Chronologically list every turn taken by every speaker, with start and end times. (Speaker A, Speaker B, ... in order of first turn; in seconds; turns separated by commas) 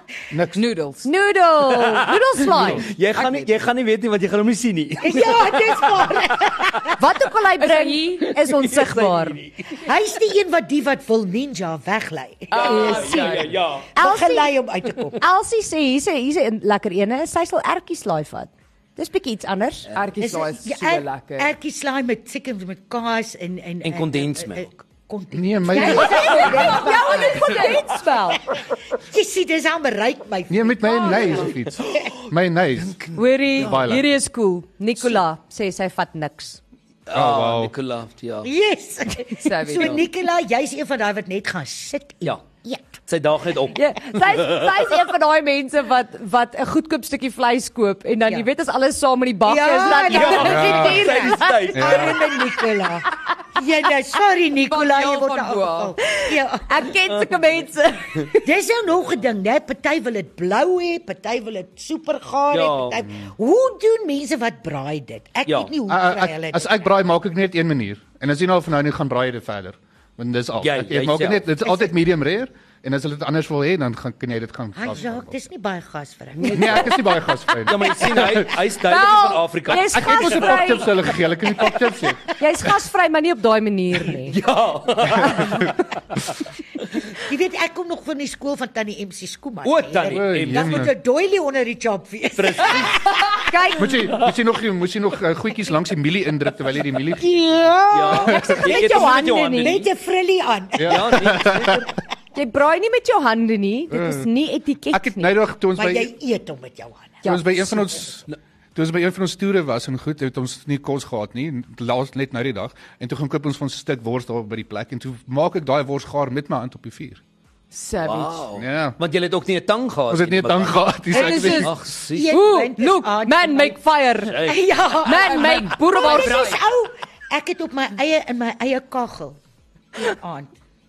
Speaker A: 0.3-0.6, Speaker B: 0.5-1.1, Speaker C: 1.0-2.9, Speaker D: 1.7-6.1, Speaker B: 3.1-3.5, Speaker E: 5.0-7.0, Speaker C: 7.0-9.4, Speaker B: 7.6-8.2, Speaker D: 8.2-9.9, Speaker E: 9.8-13.4, Speaker B: 12.5-13.6, Speaker D: 12.5-13.9, Speaker C: 13.9-14.5, Speaker E: 13.9-15.2, Speaker C: 15.2-19.9, Speaker B: 19.9-21.5, Speaker E: 20.2-28.0, Speaker D: 23.8-24.8, Speaker A: 25.3-26.5, Speaker C: 25.8-28.4, Speaker B: 26.4-27.4, Speaker E: 29.0-32.1, Speaker A: 30.5-33.0, Speaker D: 31.0-32.1, Speaker D: 32.8-34.0, Speaker C: 33.1-36.6, Speaker A: 33.5-34.0, Speaker D: 37.1-38.5, Speaker A: 37.1-37.7, Speaker E: 38.4-43.0, Speaker B: 39.3-40.0, Speaker D: 39.8-40.0, Speaker D: 43.1-44.7, Speaker C: 43.7-52.6, Speaker E: 49.4-56.8, Speaker D: 49.9-52.4, Speaker A: 50.4-51.1, Speaker A: 51.7-52.2, Speaker B: 54.6-56.0, Speaker C: 56.0-58.5, Speaker D: 57.1-57.6, Speaker E: 58.4-66.8, Speaker D: 62.5-63.0, Speaker D: 65.5-65.7, Speaker A: 65.9-75.3, Speaker D: 70.6-71.5, Speaker E: 74.8-77.1, Speaker D: 76.4-77.0, Speaker A: 76.5-78.5, Speaker D: 77.5-80.8, Speaker C: 78.8-81.0, Speaker A: 79.9-82.2, Speaker C: 82.4-84.4, Speaker D: 84.0-86.0, Speaker A: 85.2-85.7, Speaker E: 87.2-93.3, Speaker D: 89.6-90.9, Speaker A: 90.1-90.9, Speaker D: 92.3-93.2, Speaker C: 93.4-94.1, Speaker A: 93.8-97.5, Speaker E: 97.2-101.7, Speaker D: 97.9-99.9, Speaker C: 98.2-99.8, Speaker A: 98.3-98.5, Speaker A: 100.8-101.8, Speaker D: 100.8-101.9, Speaker C: 102.3-105.3, Speaker A: 103.9-104.3, Speaker A: 104.9-106.1, Speaker E: 105.8-108.1, Speaker A: 107.2-117.2, Speaker B: 117.7-118.5, Speaker D: 118.0-122.4, Speaker A: 118.5-119.0, Speaker A: 120.1-121.8, Speaker C: 121.1-121.7, Speaker E: 121.1-123.8, Speaker C: 122.3-124.4, Speaker D: 124.2-124.7, Speaker E: 124.3-129.4, Speaker C: 125.0-126.6, Speaker B: 125.0-126.6, Speaker E: 129.9-130.5